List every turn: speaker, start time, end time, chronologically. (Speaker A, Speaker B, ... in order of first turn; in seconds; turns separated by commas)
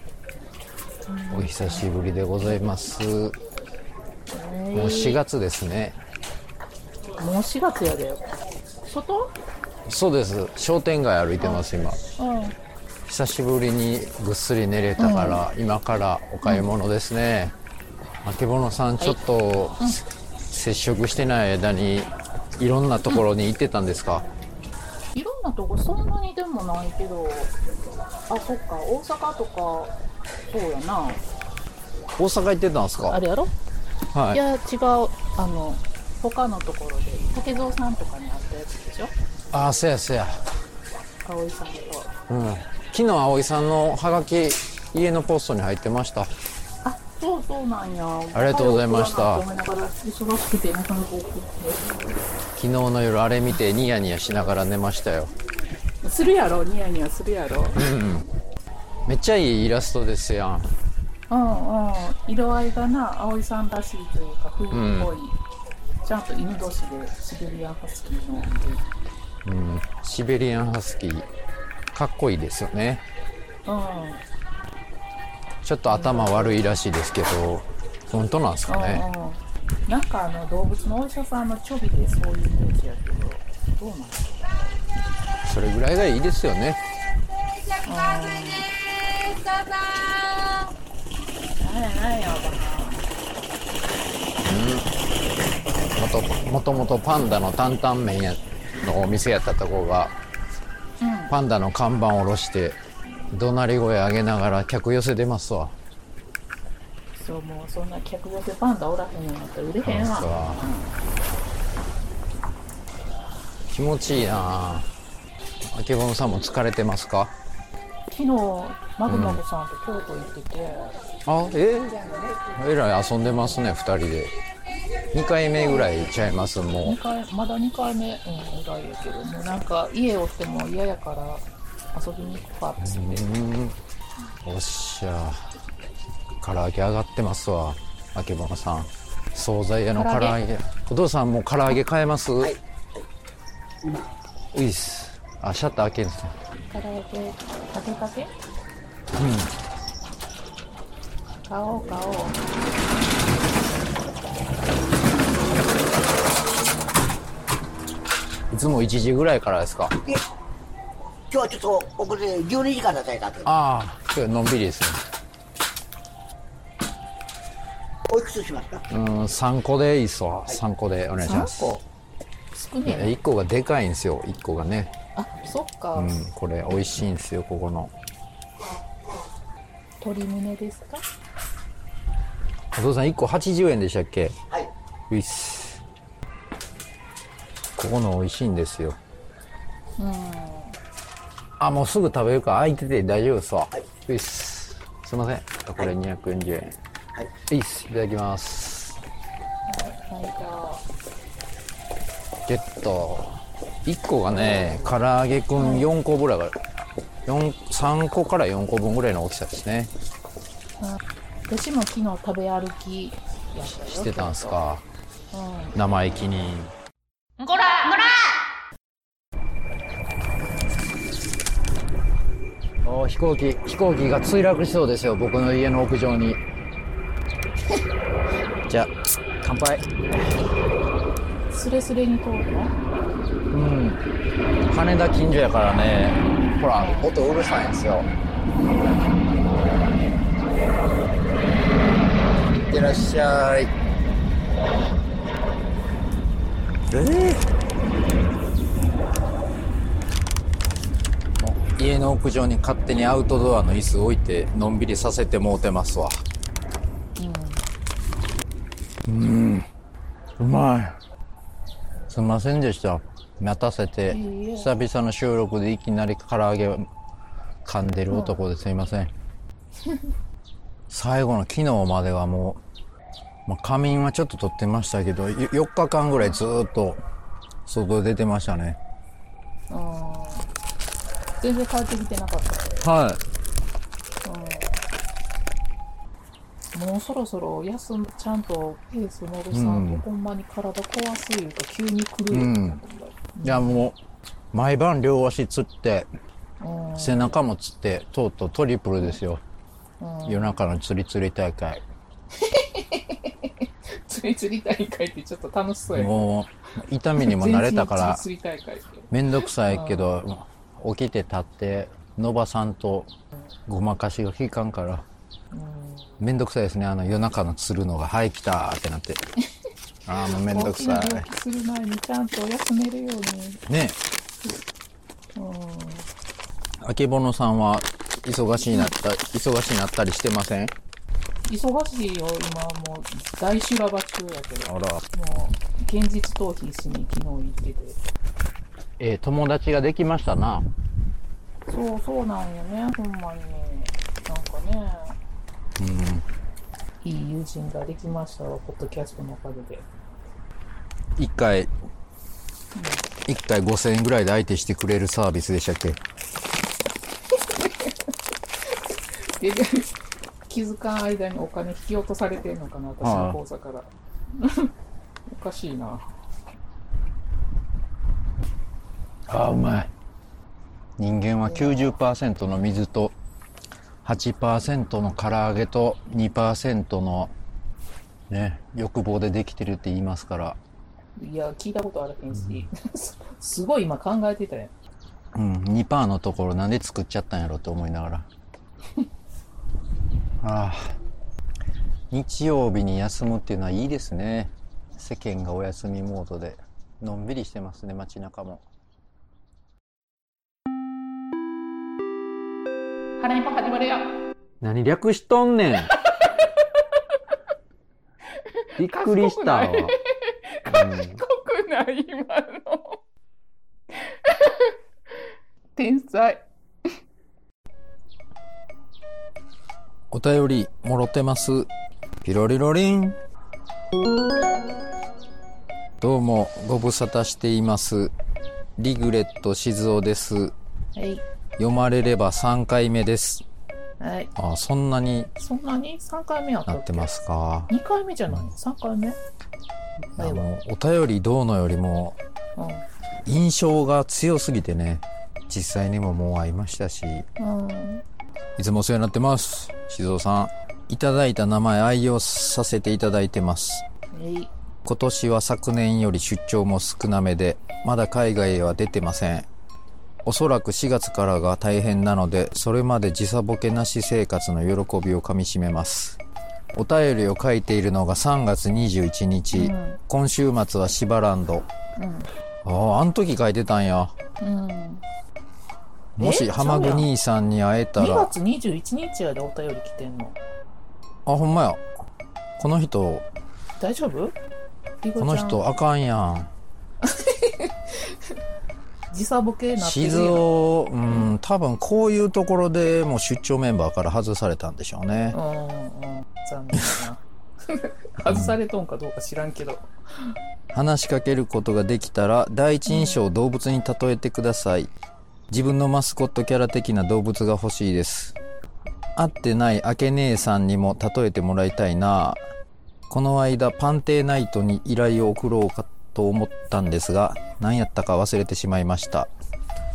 Speaker A: 1.1-1.8, Speaker B: 1.3-3.4, Speaker A: 4.3-5.2, Speaker B: 4.7-6.0, Speaker A: 7.2-8.2, Speaker A: 8.9-9.3, Speaker B: 9.9-12.0, Speaker A: 11.4-11.7, Speaker A: 12.2-12.5, Speaker B: 13.1-17.5, Speaker A: 15.0-15.4, Speaker A: 16.4-16.7, Speaker B: 18.2-24.2, Speaker A: 25.1-27.5, Speaker A: 28.3-29.9, Speaker A: 30.5-31.2, Speaker B: 32.1-33.2, Speaker A: 33.0-33.5, Speaker B: 34.1-34.4, Speaker A: 34.3-39.1, Speaker B: 39.5-40.4, Speaker A: 41.2-42.1, Speaker B: 42.3-46.3, Speaker A: 46.8-52.0, Speaker B: 48.3-49.4, Speaker B: 52.5-55.3, Speaker A: 56.0-57.8, Speaker B: 57.8-58.3, Speaker B: 59.0-60.7, Speaker A: 61.3-65.4, Speaker B: 64.7-65.1, Speaker A: 66.0-68.8, Speaker B: 69.4-71.3, Speaker B: 71.9-73.0, Speaker A: 73.7-74.2, Speaker B: 75.6-79.0, Speaker A: 75.9-76.6, Speaker A: 78.7-84.4, Speaker B: 85.4-86.8, Speaker A: 87.8-88.7, Speaker A: 89.6-90.6, Speaker A: 91.6-93.1, Speaker B: 94.4-94.9, Speaker B: 96.0-100.2, Speaker A: 101.0-101.3, Speaker B: 101.3-102.8, Speaker B: 103.3-105.8, Speaker A: 107.2-110.9, Speaker B: 109.8-110.6, Speaker B: 113.7-114.9, Speaker B: 115.7-117.3, Speaker A: 118.1-120.9, Speaker B: 119.1-119.4, Speaker B: 121.2-124.3, Speaker B: 125.1-127.0, Speaker A: 126.8-133.3, Speaker B: 132.8-133.8, Speaker B: 134.4-135.4, Speaker B: 136.4-142.6, Speaker A: 139.9-140.4, Speaker B: 144.5-146.3, Speaker A: 146.7-148.3, Speaker B: 149.2-149.5, Speaker A: 151.5-152.4, Speaker B: 158.5-159.9, Speaker C: 161.3-163.4, Speaker B: 163.4-165.0, Speaker C: 168.1-168.8, Speaker B: 168.9-171.8, Speaker A: 171.2-171.8, Speaker A: 172.5-173.1, Speaker B: 172.8-174.9, Speaker A: 175.2-176.1, Speaker B: 175.9-177.9, Speaker A: 180.0-181.0, Speaker B: 182.7-184.4, Speaker B: 185.1-185.8, Speaker B: 187.8-189.0, Speaker A: 190.0-190.8, Speaker B: 191.6-196.8, Speaker B: 197.5-199.0, Speaker A: 199.7-200.8, Speaker B: 202.5-206.5, Speaker A: 204.3-205.0, Speaker A: 205.6-205.9, Speaker B: 207.2-209.9, Speaker A: 210.8-214.6, Speaker B: 213.7-214.8, Speaker A: 215.3-215.7, Speaker B: 215.7-216.7, Speaker A: 217.4-218.2, Speaker B: 222.8-226.4, Speaker B: 228.7-229.8, Speaker A: 231.5-232.7, Speaker B: 233.5-234.0, Speaker B: 234.7-238.1, Speaker A: 236.8-237.1, Speaker B: 242.5-243.7, Speaker B: 246.9-247.4, Speaker B: 251.4-256.2, Speaker A: 257.2-257.6, Speaker B: 259.1-259.7, Speaker B: 260.4-261.0, Speaker B: 262.1-266.9, Speaker A: 264.1-264.7, Speaker B: 267.6-269.1, Speaker A: 268.1-268.4, Speaker B: 270.9-272.6, Speaker B: 273.4-277.0, Speaker B: 277.6-278.8, Speaker A: 279.7-280.5, Speaker A: 281.4-282.7, Speaker B: 282.8-283.2, Speaker A: 284.2-284.7, Speaker A: 286.7-293.9, Speaker B: 289.5-290.0, Speaker B: 292.3-292.8, Speaker B: 293.4-294.0, Speaker B: 294.5-296.1, Speaker A: 296.6-297.4, Speaker B: 297.0-299.4, Speaker A: 300.0-300.5, Speaker B: 300.2-301.8, Speaker A: 302.4-306.3, Speaker B: 305.9-308.2, Speaker A: 307.2-310.1, Speaker B: 309.1-313.1, Speaker B: 313.7-315.1, Speaker A: 315.5-316.2, Speaker B: 316.2-319.2, Speaker B: 320.1-321.3, Speaker A: 320.2-323.6, Speaker B: 323.7-324.0, Speaker A: 325.3-326.1, Speaker B: 326.8-330.7, Speaker A: 328.6-328.9, Speaker A: 331.4-338.0, Speaker B: 334.6-335.0, Speaker B: 339.0-340.7, Speaker A: 341.7-345.1, Speaker B: 345.8-346.2, Speaker A: 347.0-349.9, Speaker B: 351.2-351.7, Speaker A: 352.7-353.0, Speaker B: 353.2-356.0, Speaker A: 357.5-357.9, Speaker A: 359.4-359.9, Speaker A: 360.5-364.7, Speaker B: 363.0-363.4, Speaker A: 365.3-366.1, Speaker B: 369.3-369.9, Speaker B: 371.0-373.1, Speaker A: 371.4-371.9, Speaker B: 374.0-377.3, Speaker B: 378.3-380.6, Speaker A: 381.2-384.7, Speaker B: 385.3-388.3, Speaker B: 390.4-391.0, Speaker B: 392.1-398.6, Speaker A: 403.2-404.1, Speaker B: 404.6-405.9, Speaker A: 408.7-413.0, Speaker B: 408.8-409.9, Speaker B: 410.7-411.2, Speaker A: 413.9-414.7, Speaker A: 415.8-416.4, Speaker B: 420.1-421.7, Speaker B: 422.2-423.2, Speaker B: 426.0-428.1, Speaker B: 428.8-430.6, Speaker A: 430.9-431.2, Speaker B: 431.6-433.4, Speaker A: 434.0-434.3, Speaker B: 434.4-435.3, Speaker A: 435.4-437.1, Speaker B: 436.7-437.7, Speaker A: 437.7-439.2, Speaker B: 440.1-442.2, Speaker A: 440.2-440.5, Speaker A: 442.6-442.8, Speaker B: 443.2-447.2, Speaker A: 447.4-448.0, Speaker B: 448.6-453.8, Speaker A: 454.1-454.5, Speaker B: 454.8-459.5, Speaker B: 460.2-466.2, Speaker B: 466.7-471.7, Speaker A: 469.5-470.0, Speaker A: 472.0-472.3, Speaker B: 472.6-474.1, Speaker A: 474.4-475.0, Speaker B: 476.2-478.3, Speaker A: 476.2-477.1, Speaker A: 478.0-480.4, Speaker B: 481.2-481.8, Speaker B: 482.6-483.2, Speaker A: 483.8-484.3, Speaker A: 485.0-485.7, Speaker B: 485.2-486.5, Speaker A: 487.0-488.1, Speaker A: 489.1-490.4, Speaker B: 489.8-495.4, Speaker A: 495.3-499.9, Speaker B: 498.3-498.6, Speaker B: 500.7-504.9, Speaker A: 502.9-503.2, Speaker B: 505.5-508.4, Speaker B: 509.1-512.4, Speaker B: 513.1-519.3